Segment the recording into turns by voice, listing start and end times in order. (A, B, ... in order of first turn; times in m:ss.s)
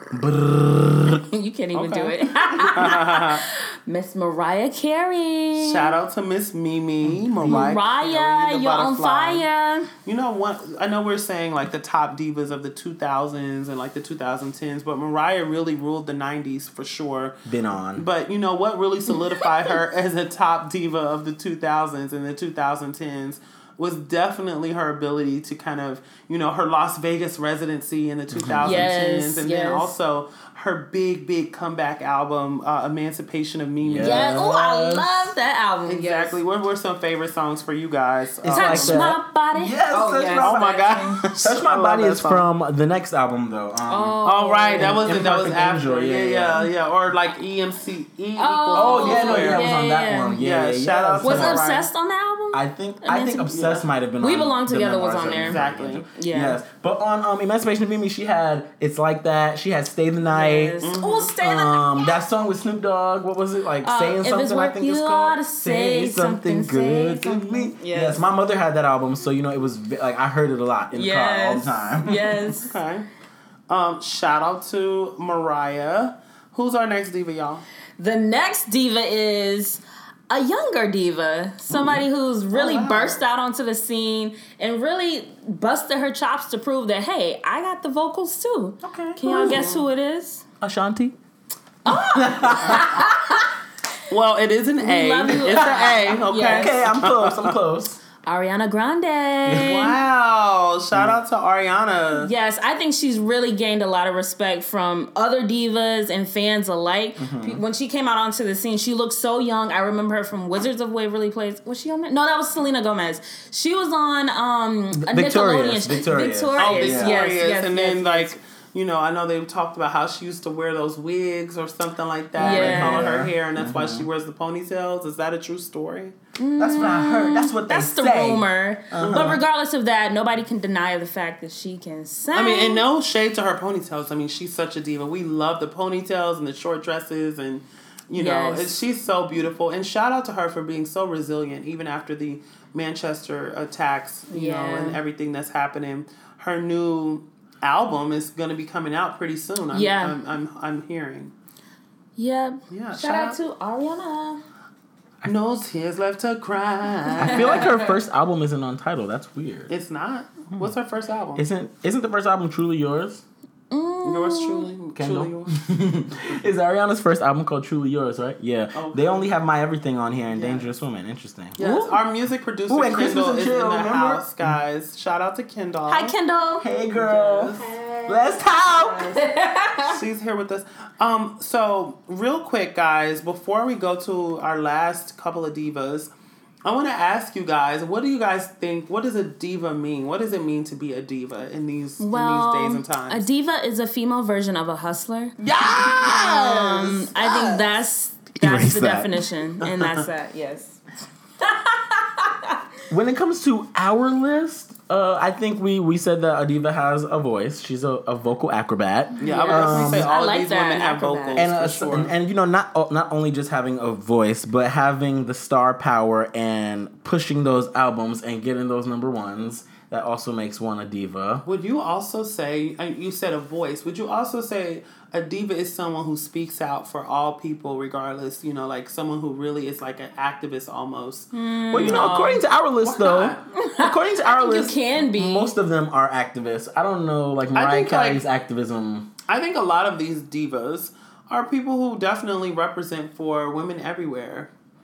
0:00.2-0:01.2 A
0:01.2-0:05.9 B
0:01.7-0:03.4 C
0:05.5-0:09.5 C
0:07.0-0:07.8 A
0:07.4-0:09.9 B
0:10.0-0:17.4 C
0:17.4-0:18.0 A
0:18.0-0:34.3 C
0:28.3-0:28.9 A
0:28.6-0:29.9 B
0:33.8-0:35.3 A
0:34.0-0:36.4 B
0:35.9-0:39.0 C
0:38.4-0:44.2 A
0:38.5-0:41.3 B
0:40.4-0:42.5 C
0:43.8-0:45.1 B
0:44.2-0:49.7 C
0:44.8-0:46.6 A
0:48.4-0:50.4 B
0:48.7-0:51.6 A
0:50.4-0:51.9 C
0:51.2-0:53.5 B
0:52.5-1:00.8 A
0:53.5-0:53.9 C
0:54.2-0:55.6 B
0:55.2-0:56.1 C
0:56.1-0:56.6 B
1:00.3-1:02.1 B
1:00.8-1:01.4 C
1:01.4-1:12.3 A
1:03.8-1:08.3 B
1:10.9-1:12.8 B
1:12.0-1:13.1 C
1:13.7-1:17.6 C
1:18.0-1:30.4 B
1:21.7-1:22.0 A
1:22.5-1:23.2 C
1:28.8-1:29.6 A
1:29.2-1:29.9 C
1:30.6-1:31.2 A
1:31.8-1:33.5 B
1:31.9-1:33.0 A
1:34.1-1:37.6 C
1:34.8-1:36.8 B
1:35.5-1:35.8 A
1:36.5-1:38.0 A
1:38.2-1:40.0 B
1:39.4-1:40.0 A
1:39.6-1:42.3 C
1:42.2-1:58.3 B
1:47.2-1:47.6 A
1:54.9-1:57.2 A
1:56.6-2:06.2 C
2:02.4-2:03.2 B
2:02.4-2:04.1 A
2:06.4-2:12.8 B
2:06.6-2:09.4 A
2:09.0-2:09.4 C
2:12.3-2:31.3 C
2:18.1-2:18.7 B
2:24.3-2:25.0 B
2:29.7-2:30.2 B
2:32.2-2:34.4 B
2:32.7-2:33.4 C
2:35.2-2:37.8 C
2:37.2-2:39.7 A
2:37.2-2:37.9 B
2:39.7-2:41.4 C
2:41.4-2:43.2 A
2:43.7-2:44.7 B
2:44.0-2:45.5 C
2:45.0-2:51.6 A
2:48.8-2:49.3 C
2:50.3-2:50.7 C
2:51.6-2:56.2 C
2:51.6-2:52.0 B
2:52.7-2:54.6 A
2:55.9-2:56.7 B
2:56.6-2:59.2 A
2:56.9-2:57.7 C
2:57.6-2:59.9 B
2:59.8-3:06.1 C
3:06.6-3:13.3 C
3:12.0-3:20.8 B
3:15.4-3:17.7 A
3:18.4-3:19.1 A
3:19.6-3:20.1 C
3:21.4-3:22.5 B
3:22.9-3:30.1 A
3:29.2-3:31.5 B
3:29.2-3:32.2 C
3:31.4-3:41.4 A
3:41.4-3:51.3 C
3:51.3-3:52.4 B
3:51.7-3:59.1 A
3:51.8-3:52.2 C
3:52.8-3:53.5 C
3:53.5-3:55.5 B
3:57.5-3:58.2 C
3:59.3-4:04.5 C